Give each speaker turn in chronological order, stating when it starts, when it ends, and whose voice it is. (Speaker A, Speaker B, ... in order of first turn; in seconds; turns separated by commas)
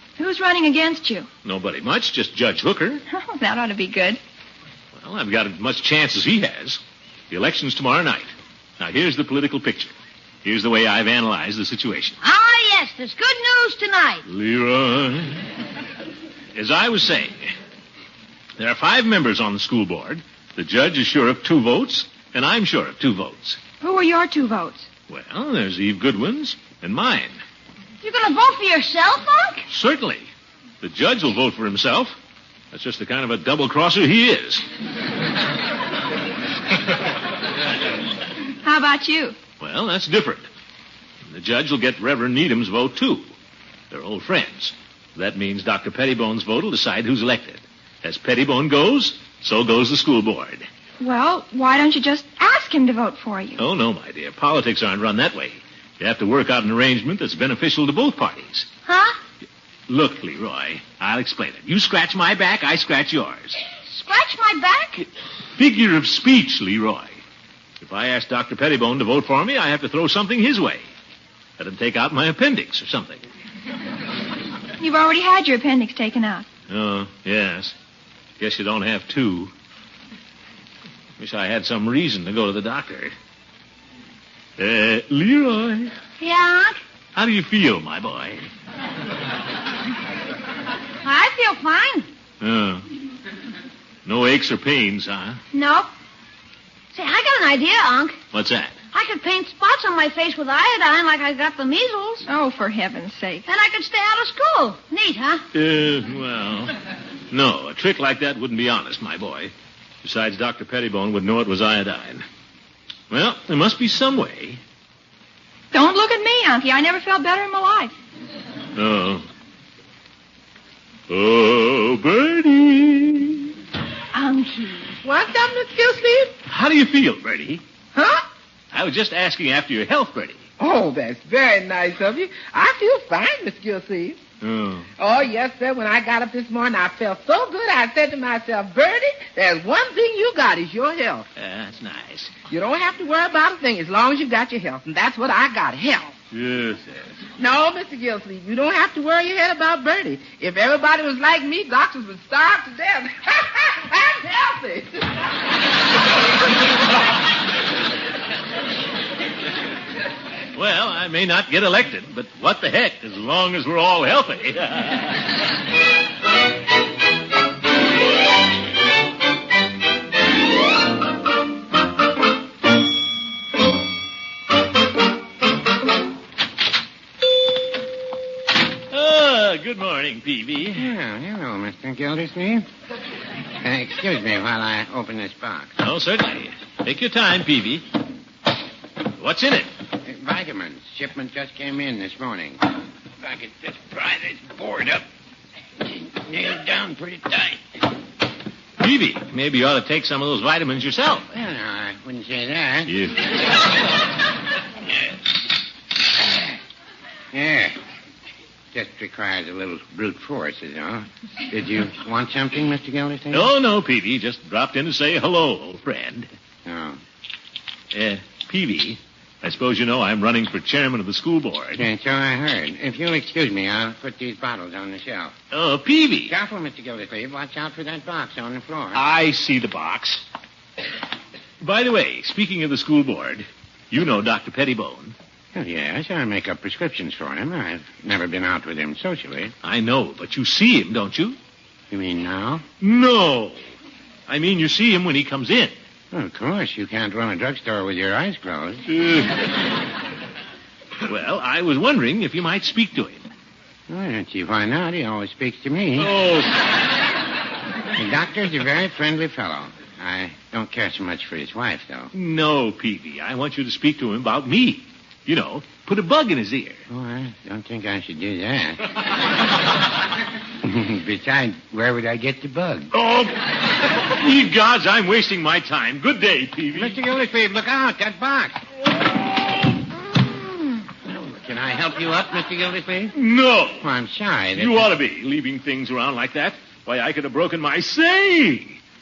Speaker A: 0.2-1.3, Speaker B: 1.4-3.0, Speaker A: 3.1-4.2, Speaker B: 4.9-9.9, Speaker B: 10.4-12.2, Speaker C: 12.2-14.2, Speaker B: 14.3-15.4, Speaker B: 16.5-17.5, Speaker B: 18.6-23.6, Speaker A: 23.8-24.9, Speaker B: 25.1-27.4, Speaker C: 28.0-29.6, Speaker B: 29.7-30.3, Speaker B: 30.8-32.2, Speaker B: 32.7-34.6, Speaker A: 38.6-39.4, Speaker B: 39.6-40.5, Speaker B: 41.3-43.3, Speaker B: 43.9-50.7, Speaker A: 51.0-53.6, Speaker B: 53.6-58.7, Speaker C: 58.9-59.2, Speaker B: 59.9-63.6, Speaker C: 63.9-65.1, Speaker B: 65.5-67.2, Speaker B: 67.8-70.8, Speaker B: 71.6-73.2, Speaker A: 74.8-76.5, Speaker B: 76.7-77.8, Speaker B: 78.4-79.5, Speaker B: 81.2-83.1, Speaker B: 84.6-85.9, Speaker C: 86.2-86.8, Speaker B: 87.1-88.5, Speaker C: 91.0-92.1, Speaker B: 92.4-92.8, Speaker B: 94.0-95.4, Speaker C: 95.5-95.9, Speaker C: 96.9-98.2, Speaker B: 98.3-98.8, Speaker C: 98.9-102.2, Speaker A: 102.3-103.5, Speaker C: 103.5-105.4, Speaker B: 105.5-106.7, Speaker B: 107.3-112.2, Speaker B: 113.1-114.6, Speaker A: 115.7-117.9, Speaker B: 118.8-119.2, Speaker B: 121.1-123.5, Speaker A: 124.1-124.9, Speaker D: 125.0-126.3, Speaker B: 126.5-127.6, Speaker D: 127.9-128.2, Speaker B: 128.7-130.4, Speaker D: 130.6-134.2, Speaker B: 134.4-134.9, Speaker D: 135.0-141.2, Speaker B: 141.3-142.3, Speaker D: 142.5-146.1, Speaker B: 146.3-147.2, Speaker D: 147.4-155.2, Speaker B: 160.5-165.3, Speaker B: 178.9-180.9, Speaker E: 180.8-182.7, Speaker E: 183.5-185.7, Speaker B: 185.8-187.8, Speaker B: 189.2-189.7, Speaker E: 190.0-195.1, Speaker E: 195.8-197.6, Speaker B: 198.8-201.3, Speaker E: 201.3-202.9, Speaker B: 202.8-203.2, Speaker E: 207.3-207.8, Speaker E: 208.7-213.5, Speaker B: 213.3-216.3, Speaker E: 216.7-217.0, Speaker B: 217.9-221.8, Speaker E: 221.8-225.3, Speaker B: 225.5-226.3, Speaker E: 226.3-229.0, Speaker B: 228.9-230.2, Speaker B: 231.6-235.2, Speaker E: 235.5-239.5, Speaker B: 239.6-241.4, Speaker E: 241.9-242.7, Speaker B: 242.8-243.6, Speaker B: 244.3-245.8, Speaker E: 246.1-248.9, Speaker B: 248.8-249.5, Speaker B: 251.0-253.2, Speaker E: 253.9-256.1, Speaker B: 256.0-256.6, Speaker E: 257.9-262.1, Speaker B: 262.1-266.8, Speaker E: 266.9-268.9, Speaker E: 270.5-272.9, Speaker B: 272.9-277.0, Speaker E: 276.7-278.6, Speaker E: 281.0-283.1, Speaker B: 283.1-283.9, Speaker E: 283.8-284.9, Speaker B: 284.5-288.8